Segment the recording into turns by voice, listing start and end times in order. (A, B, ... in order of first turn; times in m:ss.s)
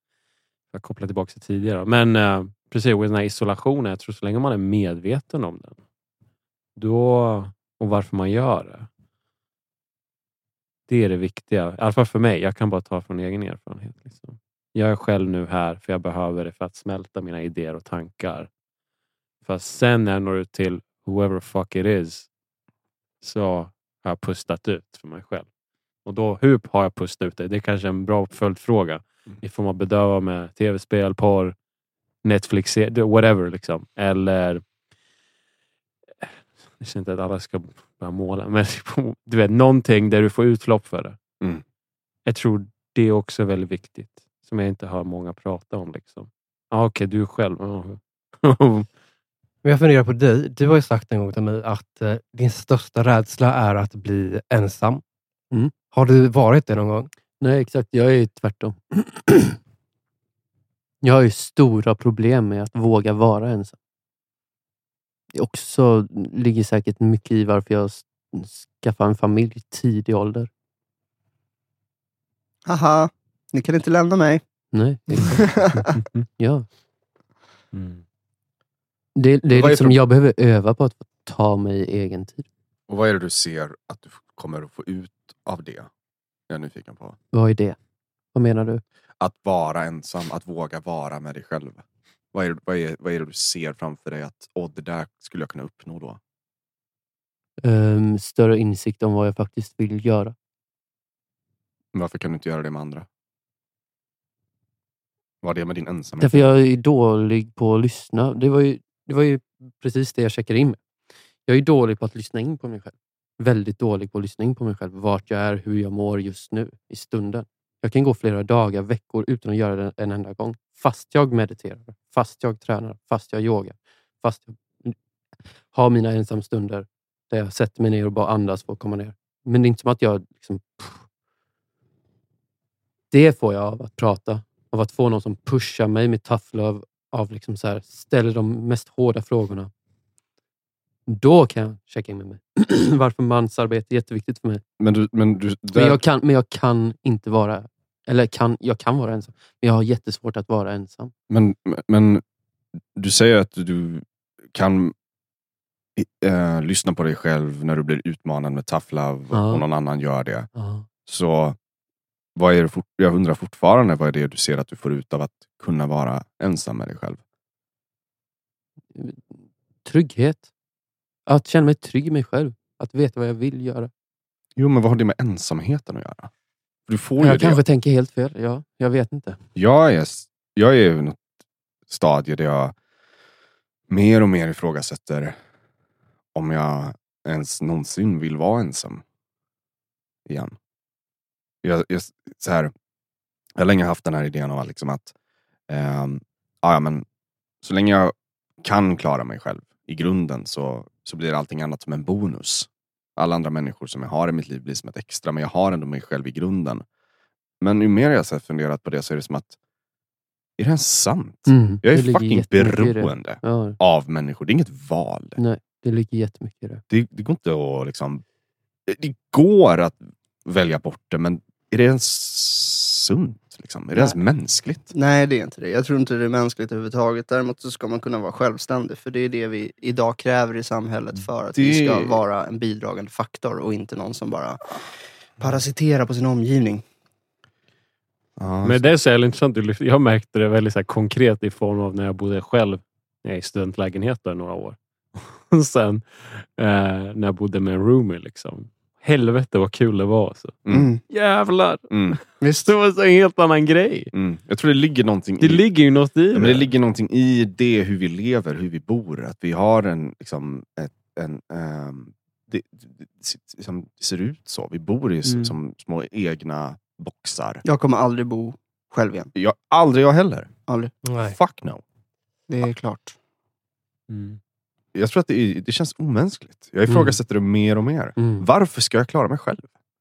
0:00.7-0:05.8 A
0:06.8-0:08.9 A
0:10.9-0:18.5 A
0:19.4-0:22.3 A
0:23.2-0:25.5 A
0:26.0-0:31.5 A
0:32.2-0:34.6 A
0:36.2-0:41.2 A
0:42.2-0:48.9 A
0:49.6-0:55.0 B
0:55.9-0:57.1 B
0:57.4-0:59.6 C
1:01.0-1:03.8 C
1:05.3-1:10.5 C
1:12.6-1:14.4 D
1:14.7-1:15.6 C
1:15.1-1:16.0 D
1:15.9-1:16.2 A
1:16.4-1:16.6 C
1:17.7-1:18.0 A
1:19.2-1:22.4 C
1:19.5-1:20.0 E
1:22.9-1:25.9 E
1:26.5-1:27.2 E
1:27.3-1:27.8 C
1:28.3-1:28.8 C
1:29.2-1:36.2 E
1:37.6-1:40.3 C
1:41.9-1:43.0 E
1:45.4-1:46.5 E
1:46.2-1:50.8 C
1:51.4-2:05.0 C
2:05.7-2:11.0 C
2:13.1-2:19.7 C
2:21.1-2:24.6 C
2:24.8-2:26.0 E
2:25.7-2:31.1 C
2:31.3-2:32.2 E
2:32.9-2:34.9 E
2:36.0-2:40.5 E
2:39.3-2:39.6 C
2:40.5-2:40.8 C
2:41.0-2:41.6 E
2:42.4-2:47.2 E
2:48.9-2:50.5 C
2:51.3-2:53.9 C
2:54.6-2:56.3 E
2:56.9-2:57.6 E
2:57.2-2:59.4 C
2:59.6-3:01.2 E
3:01.9-3:02.7 E
3:03.9-3:05.4 E
3:06.3-3:09.0 E
3:10.2-3:10.6 E
3:11.6-3:12.7 E
3:13.6-3:15.1 E
3:15.7-3:17.0 E
3:17.6-3:26.8 E
3:27.6-3:29.6 E
3:30.6-3:35.4 E
3:31.5-3:33.8 C
3:35.4-3:36.8 C
3:36.9-3:38.2 E
3:38.8-3:44.9 E
3:44.9-3:56.8 D
3:51.1-3:52.2 E
3:58.4-3:58.9 E
3:58.6-4:14.1 A
4:10.6-4:10.9 E
4:10.7-4:11.0 D
4:11.9-4:12.2 E
4:12.4-4:12.7 D
4:14.1-4:15.6 E
4:15.4-4:16.7 A
4:16.3-4:27.6 E
4:25.2-4:25.5 A
4:27.6-4:29.3 D
4:29.3-4:30.5 E
4:30.7-4:30.9 D
4:31.0-4:31.4 B
4:31.2-4:31.8 E
4:32.5-4:33.1 D
4:34.1-4:34.4 A
4:34.9-4:39.7 E
4:36.9-4:37.2 C
4:38.2-4:38.4 C